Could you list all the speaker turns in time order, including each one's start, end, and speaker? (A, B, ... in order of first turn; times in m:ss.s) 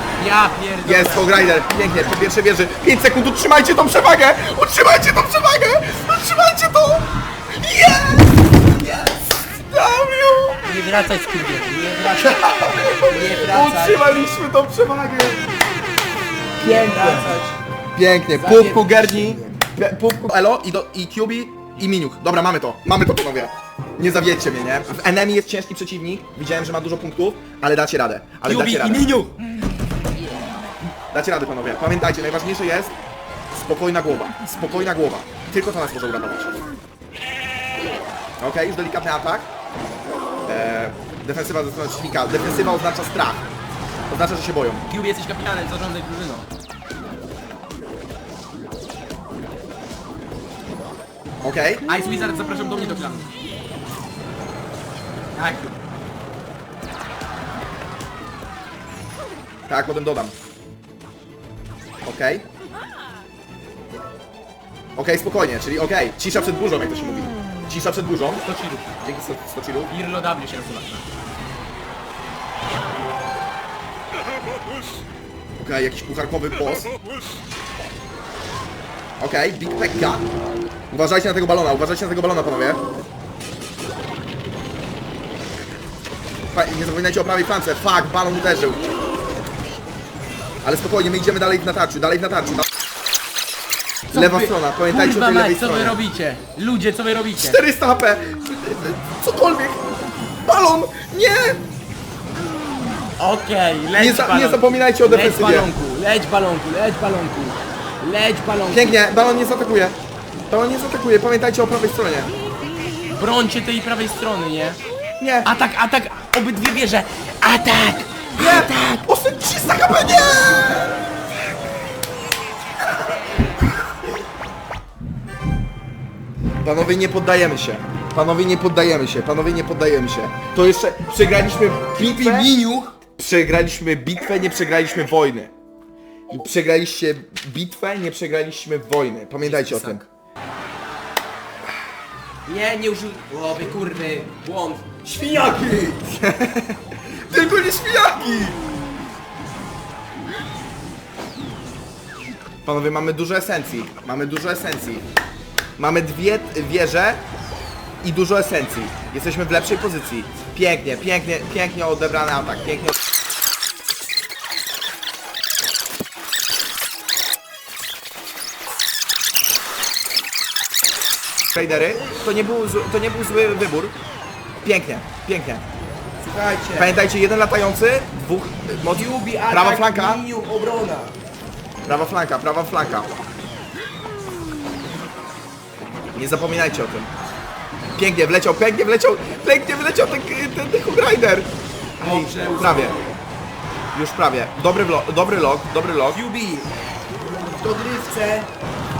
0:00.2-0:01.3 A
0:00.8-0:10.6 B
0:10.6-0:12.4 A
0:12.1-0:15.5 B
0:13.1-0:14.2 A
0:16.6-0:17.3 B
0:16.6-0:17.6 A
0:17.9-0:29.1 B
0:18.3-0:19.6 A
0:28.4-0:29.4 A
0:31.1-0:32.9 B
0:33.5-0:36.6 B
0:38.4-0:39.5 B
0:40.5-0:43.4 B
0:44.1-0:44.8 B
0:44.9-0:46.4 A
0:51.4-0:51.8 B
0:51.8-0:53.3 A
0:55.3-0:55.8 A
0:59.7-1:00.3 B
1:02.0-1:02.4 B
1:05.0-1:08.4 B
1:08.4-1:09.0 A
1:09.0-1:09.9 B
1:09.9-1:11.0 A
1:15.6-1:16.9 B
1:19.2-1:20.3 B
1:20.9-1:22.8 B
1:26.5-1:28.9 B
1:30.6-1:32.6 B
1:34.1-1:37.6 A
1:34.1-1:36.0 B
1:37.4-1:41.6 B
1:43.2-1:49.0 A
1:44.0-1:45.7 B
1:48.7-1:50.0 B
1:50.5-1:52.3 B
1:53.1-1:54.8 A
1:55.2-1:55.5 B
1:55.4-1:59.1 A
1:58.4-2:00.9 B
2:06.6-2:12.5 B
2:11.9-2:13.0 A
2:13.2-2:15.5 B
2:16.3-2:20.0 B
2:19.4-2:20.0 A
2:22.4-2:25.0 A
2:25.0-2:28.6 B
2:32.6-2:35.0 B
2:35.8-2:37.2 B
2:38.0-2:42.9 B
2:51.5-2:53.9 B
2:54.6-2:55.6 B
2:56.2-2:57.0 A
2:56.8-3:00.2 B
2:58.9-3:01.1 A
3:01.8-3:03.1 B
3:06.1-3:07.1 B
3:08.0-3:11.5 B
3:12.0-3:13.0 B
3:12.0-3:13.1 A
3:13.9-3:16.2 B
3:16.1-3:18.5 A